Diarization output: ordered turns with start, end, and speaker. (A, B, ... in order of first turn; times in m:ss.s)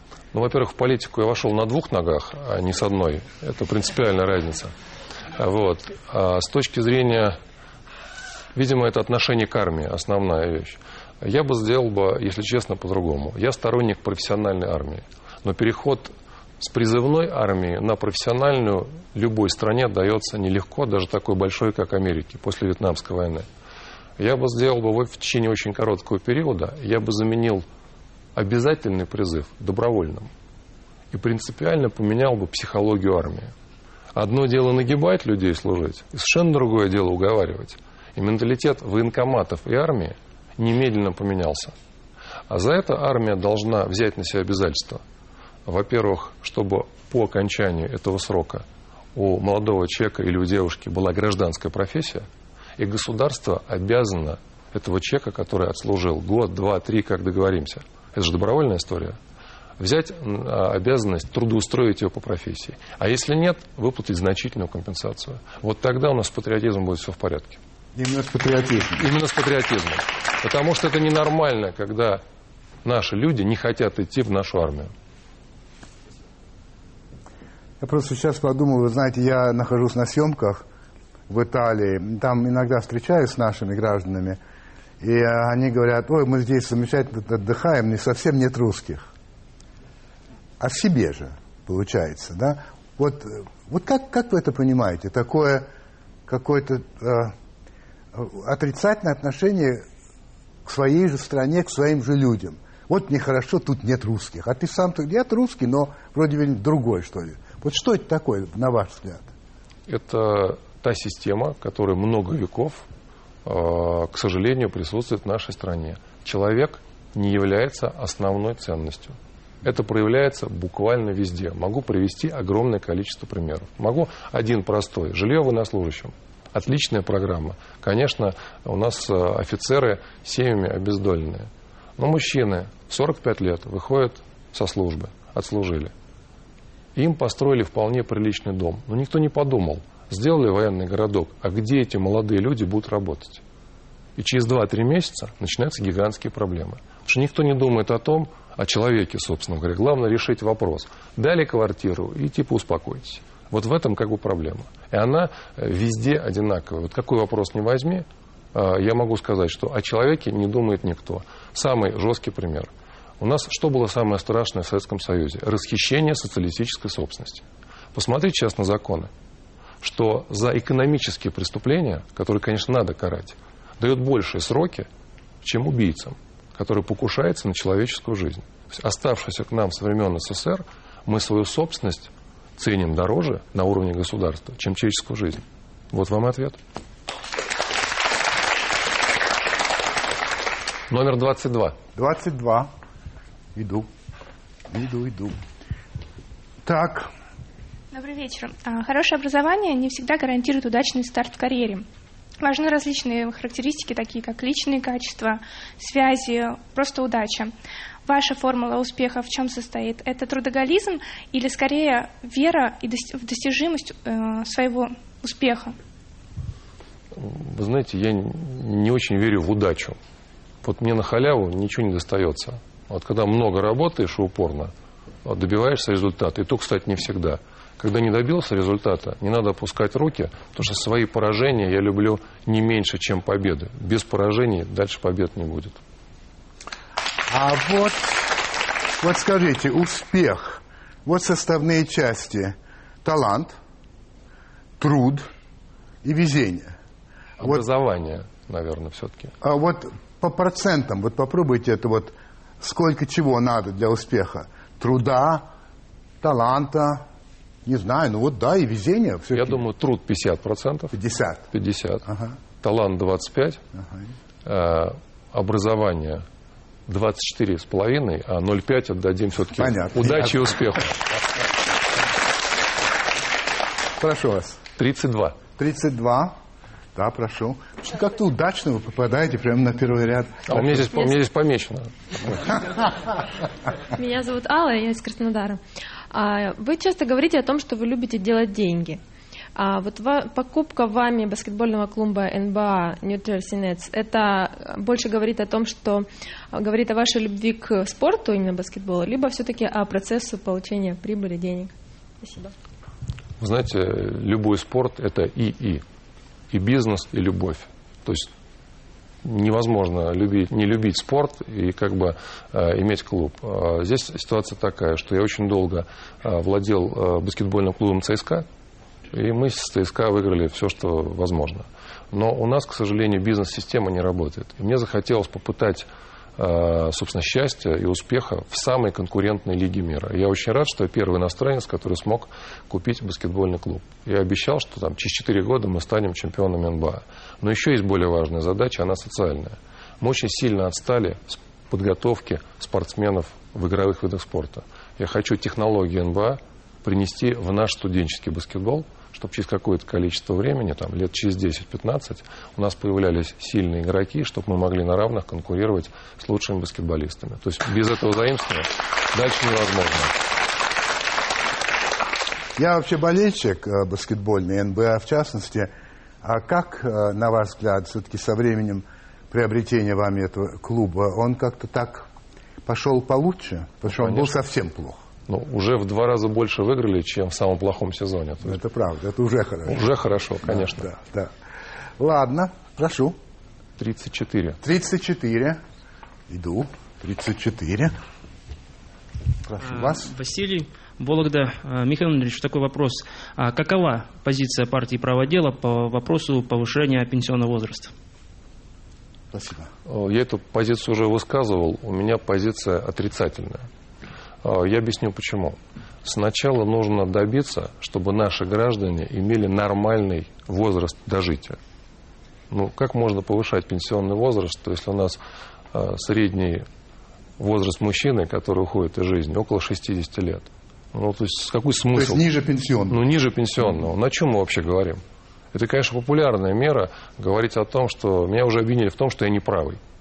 0:00.3-0:04.7 A
0:05.3-0:07.4 A
0:08.6-0:23.5 A
0:24.2-0:27.7 A
0:28.4-0:30.3 A
0:31.1-0:33.5 A
0:34.2-0:41.8 A
0:42.5-0:45.0 A
0:45.7-0:52.3 A
0:52.8-0:59.2 A
0:59.8-1:07.6 A
1:08.0-1:09.1 B
1:09.0-1:12.2 A
1:12.8-1:14.9 A
1:17.8-1:20.6 B
1:21.3-1:24.4 B
1:25.0-1:29.1 B
1:30.6-1:35.7 B
1:36.3-1:37.3 B
1:38.1-1:39.8 B
1:40.6-1:49.3 B
1:49.9-1:52.9 A
1:53.4-2:15.9 A
2:17.0-2:23.4 A
2:24.2-2:49.1 A
2:49.8-2:54.9 A
2:55.4-3:06.6 A
3:10.9-3:11.8 A
3:12.0-3:12.7 B
3:13.6-3:13.9 B
3:14.7-3:15.4 B
3:16.6-3:17.1 B
3:17.9-3:21.9 C
3:22.4-3:27.5 C
3:28.1-3:35.8 C
3:37.1-3:40.0 A
3:40.6-3:44.7 A
3:45.2-3:55.8 A
3:57.3-4:03.6 B
4:04.8-4:05.3 B
4:06.0-4:06.7 B
4:07.4-4:09.3 A
4:09.4-4:15.5 B
4:16.2-4:17.0 B
4:17.6-4:19.6 B
4:19.3-4:21.0 A
4:20.9-4:21.5 B
4:21.5-4:22.1 A
4:22.0-4:22.4 B
4:22.6-4:23.6 A
4:23.7-4:24.1 B
4:24.4-4:26.2 A
4:26.9-4:31.0 A
4:29.6-4:30.7 B
4:34.0-4:34.6 B
4:34.8-4:35.4 A
4:35.6-4:36.4 B
4:37.0-4:40.9 B
4:40.5-4:42.6 A
4:44.0-4:49.0 D
4:49.6-5:01.7 D
5:02.2-5:02.5 D
5:03.4-5:05.8 A
5:06.5-5:08.3 A
5:09.2-5:18.5 A
5:19.1-6:00.1 A
6:02.6-6:05.7 B
6:06.2-6:12.1 B
6:12.6-6:15.0 B
6:13.9-6:14.3 A
6:15.3-6:18.6 A
6:18.4-6:21.3 B
6:19.7-6:20.9 A
6:22.0-6:23.2 B
6:23.8-6:24.6 A
6:24.6-6:25.6 B
6:26.3-6:27.9 B
6:29.5-6:30.1 B
6:29.6-6:37.9 E
6:39.3-6:39.7 B
6:39.9-6:43.7 A
6:44.4-6:51.6 A
6:52.5-6:55.2 A
6:55.7-6:56.7 A
6:57.4-7:02.3 A
7:01.9-7:03.0 B
7:02.9-7:05.0 A
7:05.5-7:09.8 A